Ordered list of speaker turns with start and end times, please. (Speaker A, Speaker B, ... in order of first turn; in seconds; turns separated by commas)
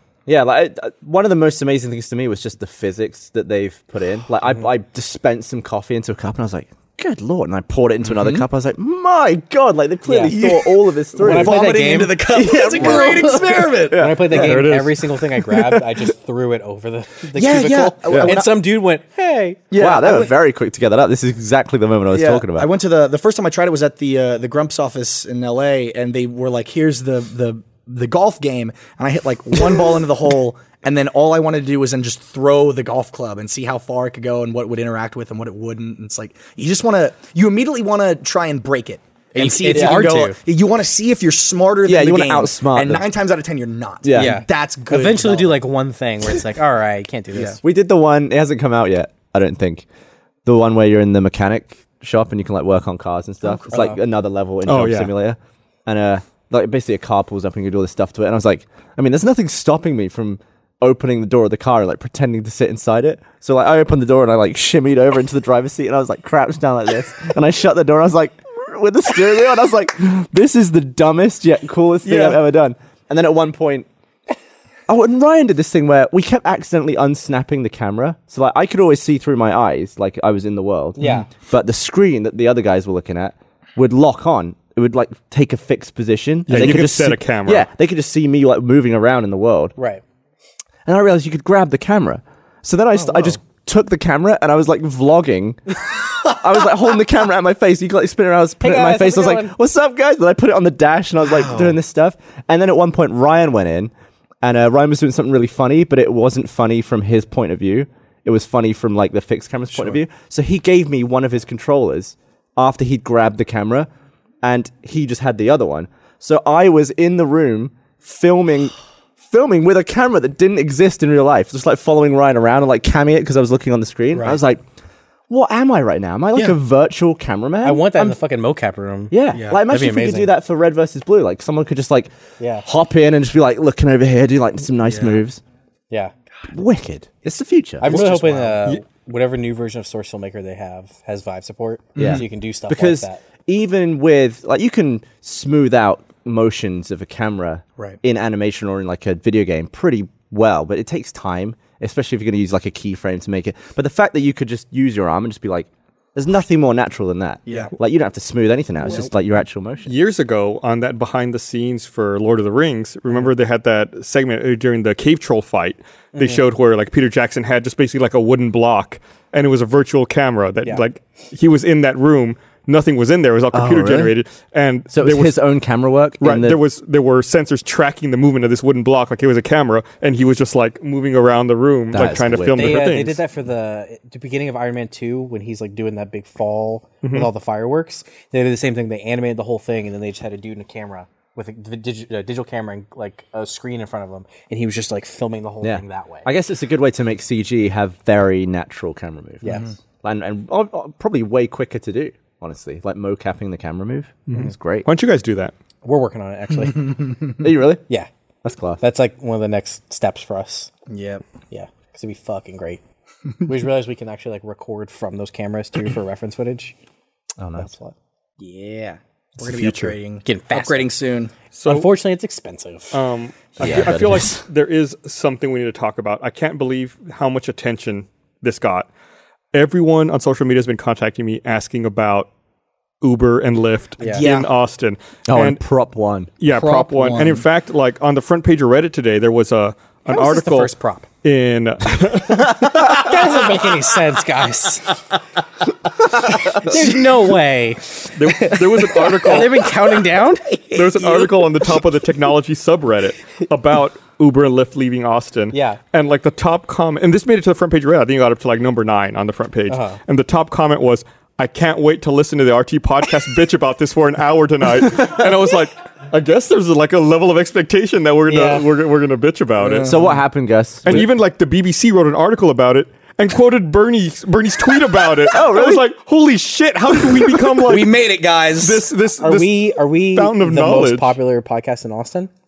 Speaker A: 0.2-11.6, Speaker B: 8.1-8.4, Speaker C: 10.1-10.3, Speaker B: 10.3-14.4, Speaker C: 11.2-12.2, Speaker A: 12.3-14.6, Speaker C: 12.7-19.6, Speaker D: 14.3-15.1, Speaker B: 17.4-18.5, Speaker A: 18.0-18.5, Speaker B: 19.7-20.3, Speaker A: 19.7-22.7, Speaker B: 22.1-45.6, Speaker C: 39.3-40.4, Speaker A: 39.7-40.1, Speaker A: 41.8-43.0, Speaker A: 44.0-44.4, Speaker C: 44.1-47.6, Speaker A: 47.6-49.8, Speaker A: 50.4-73.9, Speaker B: 53.4-53.8, Speaker C: 53.7-54.0, Speaker D: 54.6-55.1, Speaker D: 72.1-72.3, Speaker A: 74.9-89.7, Speaker C: 81.0-81.3, Speaker D: 86.5-87.7, Speaker C: 89.8-90.0, Speaker A: 90.8-113.9, Speaker B: 92.9-93.3, Speaker C: 98.6-99.5, Speaker B: 101.3-101.8, Speaker B: 109.7-110.0, Speaker A: 114.4-124.6, Speaker B: 124.1-124.4, Speaker A: 125.3-128.2, Speaker C: 127.6-129.1, Speaker A: 129.1-132.1, Speaker B: 129.3-129.6, Speaker C: 129.7-130.3, Speaker C: 132.4-132.7, Speaker A: 132.6-135.4, Speaker B: 134.8-135.2, Speaker A: 136.5-138.0, Speaker C: 137.8-143.2, Speaker B: 137.8-138.6, Speaker B: 141.9-142.2, Speaker A: 142.0-159.9, Speaker B: 157.5-157.7, Speaker B: 158.8-159.1, Speaker D: 159.8-175.3, Speaker C: 166.1-166.4, Speaker A: 173.5-174.1, Speaker A: 174.9-176.6, Speaker D: 176.2-183.2, Speaker A: 181.9-182.8, Speaker C: 182.5-196.3, Speaker D: 187.0-187.3, Speaker A: 195.6-204.9, Speaker C: 199.4-199.7, Speaker D: 204.3-205.5, Speaker C: 205.8-207.1, Speaker B: 206.9-207.2, Speaker A: 207.4-207.8, Speaker A: 208.4-208.8, Speaker C: 208.8-210.7, Speaker B: 210.9-211.2, Speaker C: 211.5-212.8, Speaker C: 213.4-216.7, Speaker A: 217.4-217.7, Speaker C: 217.6-217.9, Speaker B: 218.4-221.3, Speaker D: 219.4-219.9, Speaker C: 220.2-220.9, Speaker D: 221.5-221.9, Speaker C: 221.7-223.0, Speaker D: 222.9-228.9, Speaker A: 223.6-224.4, Speaker D: 229.5-232.3, Speaker D: 233.0-235.6, Speaker C: 234.0-234.2, Speaker B: 234.1-234.5, Speaker A: 235.3-236.3, Speaker D: 236.4-240.7, Speaker B: 236.5-237.4, Speaker C: 240.1-241.1, Speaker D: 241.2-242.9, Speaker B: 242.8-243.8, Speaker C: 242.8-245.0, Speaker C: 246.3-251.2, Speaker B: 246.7-247.1, Speaker D: 248.1-249.7, Speaker B: 249.0-249.7, Speaker D: 250.7-269.9, Speaker B: 250.8-251.2, Speaker C: 255.5-255.8, Speaker C: 259.7-260.0, Speaker C: 268.3-268.7, Speaker B: 269.6-270.2, Speaker A: 269.8-271.1, Speaker D: 270.8-278.0, Speaker A: 275.3-275.8, Speaker B: 277.1-278.9, Speaker D: 278.6-281.1, Speaker C: 279.2-282.3